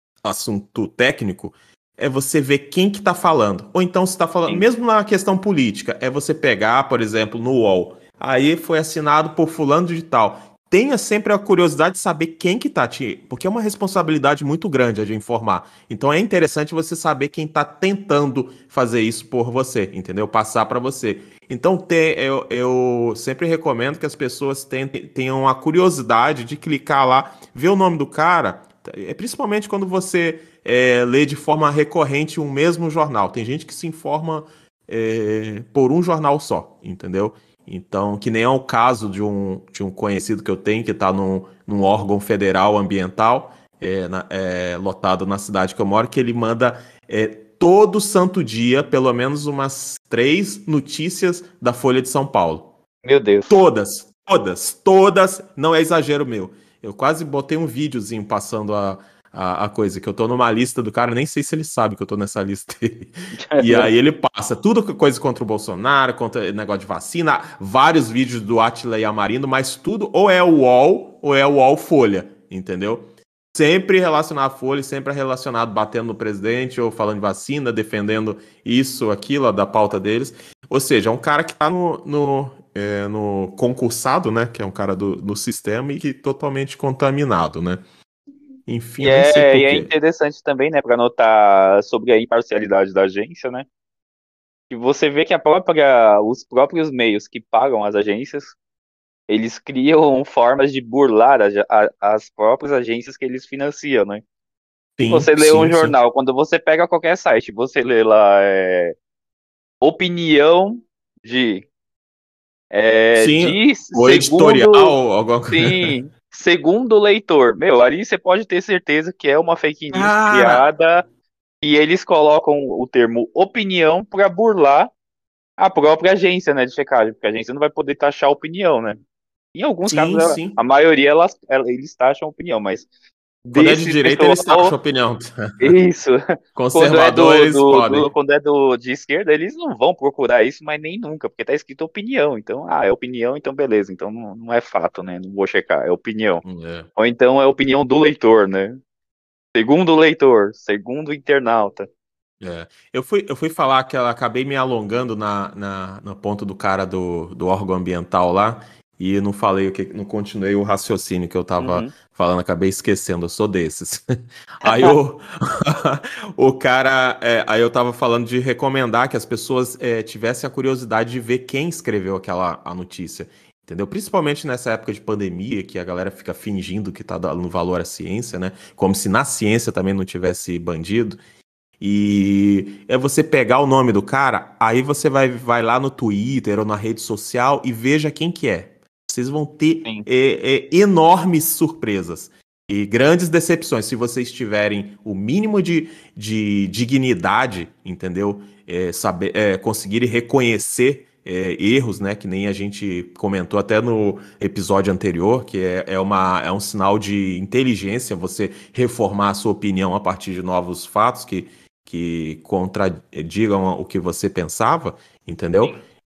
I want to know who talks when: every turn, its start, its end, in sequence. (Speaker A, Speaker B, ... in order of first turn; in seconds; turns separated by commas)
Speaker A: 0.2-52.7, Speaker B: 53.0-53.5, Speaker A: 53.5-87.8, Speaker B: 63.4-63.9, Speaker A: 88.7-89.9, Speaker B: 89.0-93.7, Speaker B: 94.7-98.6, Speaker B: 99.3-104.2, Speaker A: 105.0-105.9, Speaker B: 105.1-109.0, Speaker B: 109.8-111.7, Speaker B: 112.7-115.0, Speaker A: 113.2-115.9, Speaker B: 115.5-121.0, Speaker A: 119.9-120.6, Speaker B: 121.6-124.9, Speaker B: 125.6-129.0, Speaker B: 129.5-132.9, Speaker A: 129.8-130.6, Speaker A: 133.5-135.8, Speaker B: 133.5-134.8, Speaker B: 135.6-136.2, Speaker A: 136.6-138.1, Speaker B: 136.7-146.4, Speaker A: 146.4-146.9, Speaker B: 147.0-148.8, Speaker B: 149.6-151.9, Speaker A: 152.4-164.0, Speaker B: 161.6-161.9, Speaker A: 164.6-181.2, Speaker B: 164.6-164.9, Speaker A: 181.8-215.8